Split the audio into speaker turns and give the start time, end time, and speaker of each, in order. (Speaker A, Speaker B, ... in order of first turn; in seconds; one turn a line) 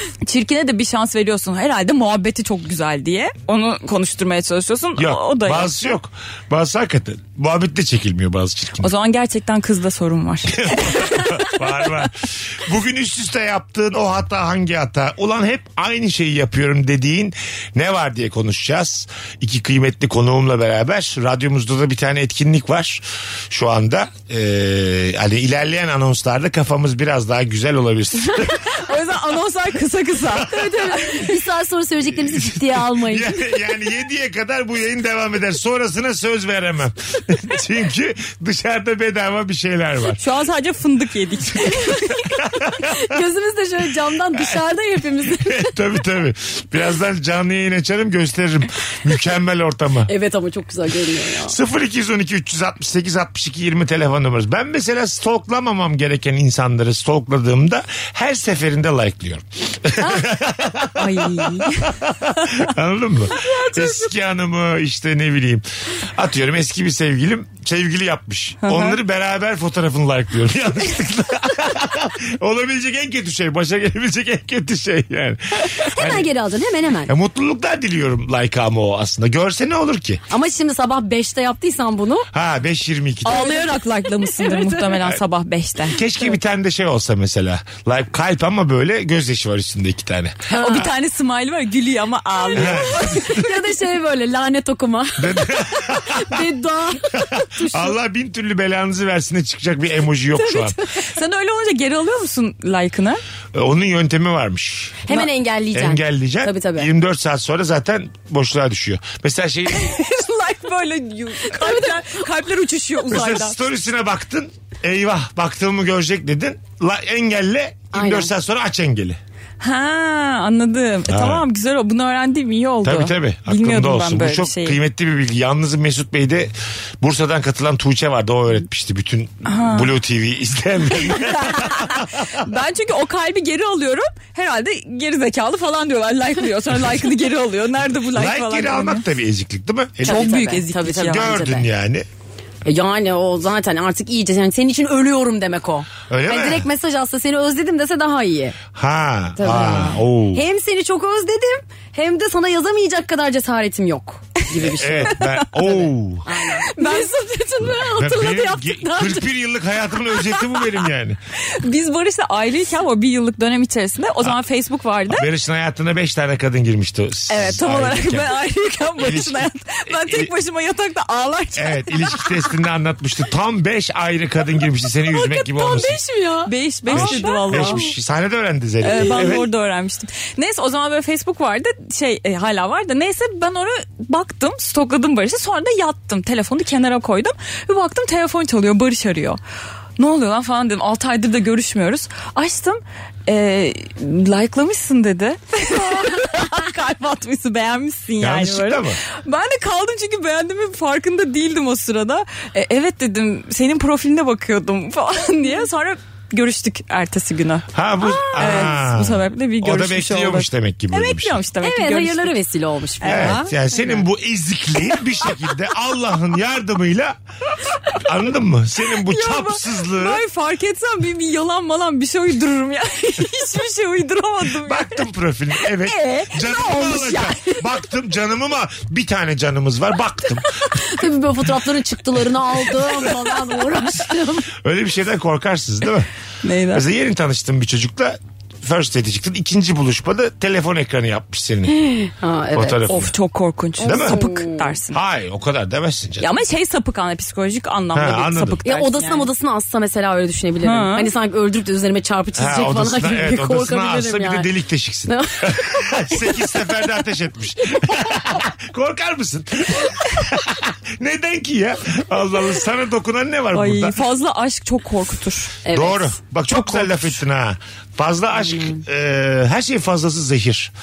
Speaker A: 0.2-5.9
Speaker B: 5.0-8.9
Speaker A: 8.8-11.4
Speaker B: 10.5-28.6
Speaker A: 28.8-31.2
Speaker C: 30.4-33.4
Speaker B: 32.2-40.2
Speaker A: 40.2-42.0
Speaker C: 41.6-45.7
Speaker B: 42.4-43.2
Speaker B: 44.3-44.6
Speaker B: 45.4-50.1
Speaker C: 50.1-51.6
Speaker B: 51.4-76.3
Speaker A: 60.9-62.5
Speaker C: 63.3-64.0
Speaker A: 68.6-69.0
Speaker C: 75.8-77.1
Speaker B: 77.1-80.2
Speaker C: 80.3-82.3
Speaker B: 82.3-83.6
Speaker A: 83.2-86.0
Speaker C: 83.3-85.0
Speaker B: 85.9-90.8
Speaker A: 90.5-93.5
Speaker C: 90.5-90.9
Speaker C: 92.3-97.9
Speaker B: 92.5-93.1
Speaker B: 95.2-96.5
Speaker B: 97.6-100.8
Speaker C: 100.4-100.8
Speaker A: 101.0-103.2
Speaker B: 103.5-110.0
Speaker C: 105.1-106.9
Speaker A: 109.7-113.6
Speaker C: 111.5-112.1
Speaker B: 113.1-119.2
Speaker C: 117.9-118.3
Speaker A: 119.6-124.8
Speaker B: 121.1-121.4
Speaker B: 122.8-132.5
Speaker A: 129.4-129.9
Speaker A: 131.1-139.1
Speaker B: 138.1-140.3
Speaker C: 140.0-141.7
Speaker A: 140.1-141.4
Speaker B: 141.1-142.1
Speaker C: 142.6-148.6
Speaker B: 146.1-146.7
Speaker B: 148.8-150.4
Speaker C: 149.4-159.2
Speaker B: 154.6-156.3
Speaker A: 156.7-157.2
Speaker B: 157.8-161.2
Speaker A: 161.5-165.3
Speaker B: 165.1-168.4
Speaker A: 167.3-172.4
Speaker B: 169.0-170.3
Speaker B: 171.6-176.0
Speaker C: 175.1-177.9
Speaker A: 176.5-177.9
Speaker B: 176.9-179.4
Speaker A: 178.8-189.4
Speaker C: 178.9-179.4
Speaker A: 190.0-207.7
Speaker C: 196.0-196.3
Speaker B: 198.2-199.0
Speaker B: 207.7-211.4
Speaker C: 208.0-208.8
Speaker A: 208.4-212.3
Speaker C: 211.6-213.4
Speaker A: 213.0-214.0
Speaker B: 213.1-217.2
Speaker B: 217.9-220.2
Speaker A: 219.1-225.0
Speaker B: 224.6-230.6
Speaker A: 225.8-227.6
Speaker C: 230.8-234.5
Speaker B: 234.6-236.1
Speaker A: 236.4-236.8
Speaker B: 236.7-241.8
Speaker C: 241.7-243.0
Speaker B: 242.5-243.1
Speaker A: 242.9-245.0
Speaker C: 243.8-244.8
Speaker B: 243.8-244.2
Speaker B: 244.9-246.2
Speaker A: 246.2-249.3
Speaker B: 247.9-248.6
Speaker C: 248.6-254.5
Speaker A: 250.6-251.1
Speaker B: 252.4-264.0
Speaker C: 255.1-256.8
Speaker C: 257.7-258.2
Speaker A: 263.5-265.6
Speaker C: 265.6-266.1
Speaker B: 265.7-270.7
Speaker A: 266.5-267.2
Speaker C: 268.3-268.8